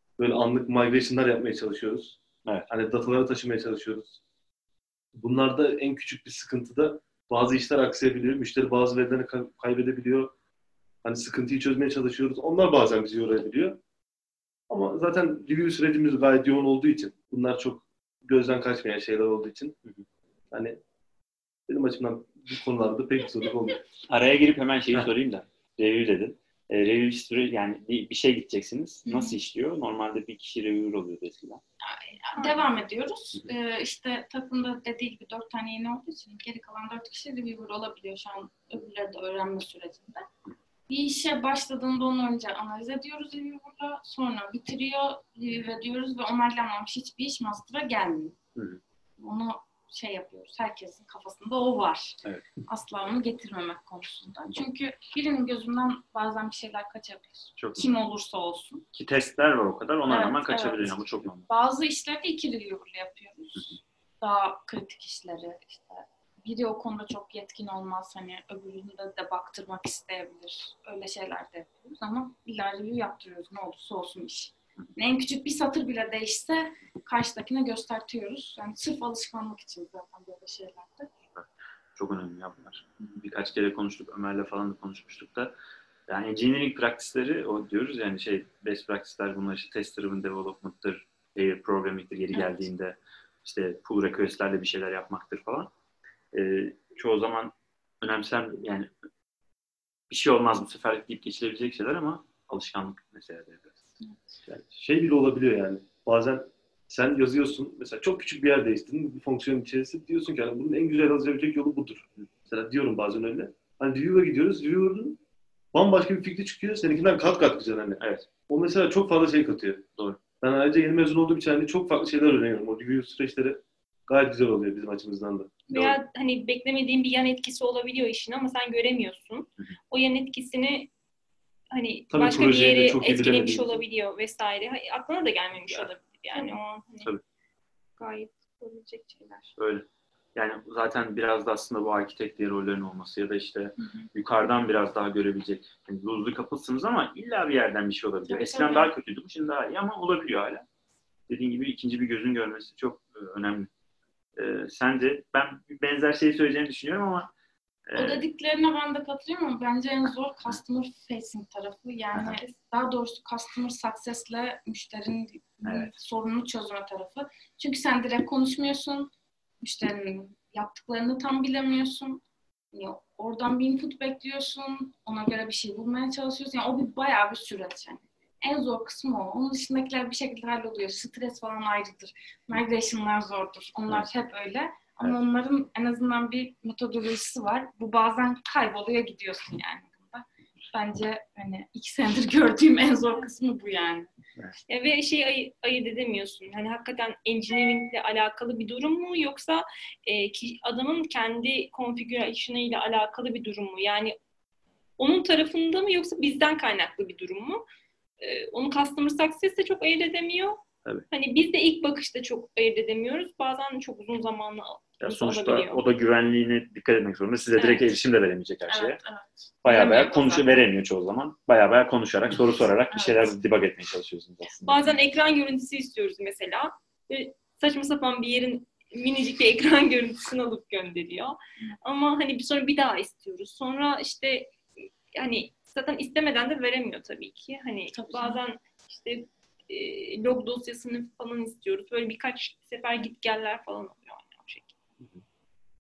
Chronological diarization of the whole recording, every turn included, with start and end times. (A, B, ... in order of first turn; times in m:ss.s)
0:00.2-0:02.2 A
0:02.7-0:04.2 A
0:05.2-0:10.3 A
0:11.0-0:13.8 A
0:14.7-0:19.8 A
0:20.5-0:20.8 A
0:21.7-0:23.8 A
0:24.1-0:31.6 B
0:29.1-0:29.4 C
0:31.8-0:40.3 C
0:32.4-0:32.6 D
0:40.9-0:48.4 C
0:49.2-0:58.8 C
0:57.6-0:57.9 B
0:58.9-1:01.5 B
1:00.1-1:21.1 C
1:21.3-1:25.5 B
1:26.1-1:35.7 B
1:32.3-1:32.7 C
1:36.3-1:38.9 B
1:40.1-1:43.8 B
1:44.0-1:44.3 C
1:44.7-1:55.2 A
1:55.7-1:59.9 A
1:58.0-1:58.3 B
2:00.4-2:05.7 A
2:05.7-2:10.9 D
2:11.7-2:17.1 D
2:12.1-2:13.8 A
2:18.0-2:19.5 D
2:19.6-2:30.6 B
2:23.8-2:24.1 C
2:28.3-2:28.9 C
2:31.3-2:33.7 B
2:34.4-2:37.3 B
2:37.9-2:38.2 B
2:38.0-3:14.1 C
2:42.1-2:42.4 B
2:45.6-2:45.9 B
3:14.7-3:24.2 D
3:25.0-3:27.6 D
3:28.2-3:35.8 D
3:35.0-3:39.0 B
3:38.7-3:40.6 C
3:39.6-3:44.9 B
3:44.7-4:04.7 D
3:57.9-3:58.4 C